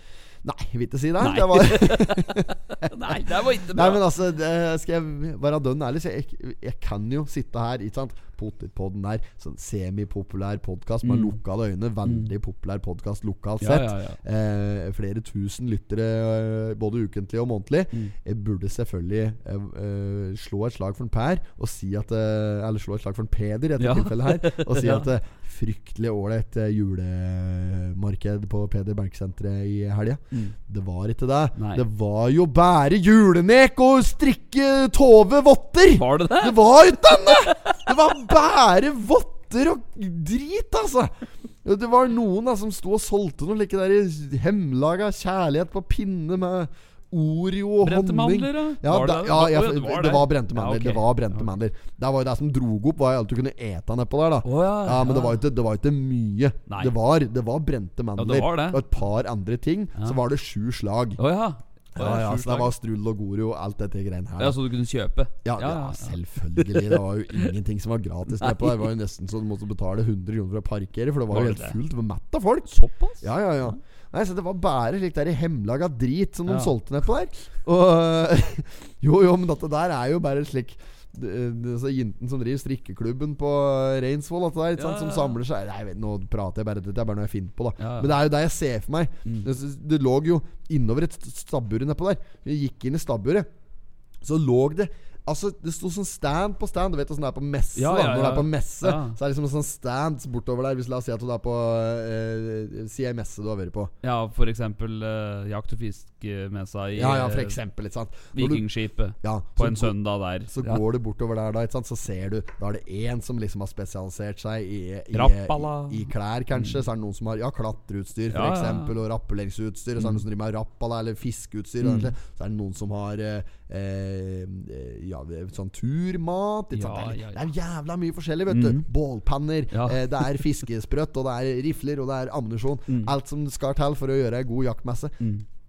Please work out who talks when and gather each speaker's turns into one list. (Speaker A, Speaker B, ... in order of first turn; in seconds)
Speaker A: 0.4-41.1, 41.6-61.2, 62.0-64.6, 65.4-93.5, 94.2-103.9, 107.0-108.7, 109.2-110.0, 110.5-135.2
Speaker B: 1.2-4.0, 11.0-11.4, 12.0-12.3, 13.6-14.2, 23.8-25.1, 31.6-31.8, 35.9-38.1, 47.8-51.5, 54.4-55.4, 56.7-57.0, 58.2-58.8, 61.2-62.7, 64.4-67.5, 68.4-68.9, 71.3-71.8, 72.7-73.7, 76.5-76.7, 84.8-85.4, 87.8-88.1, 97.8-99.2, 104.0-107.6, 108.3-110.8, 115.1-116.8, 118.3-118.9, 121.8-122.1, 126.7-127.4, 128.5-128.9, 129.7-130.4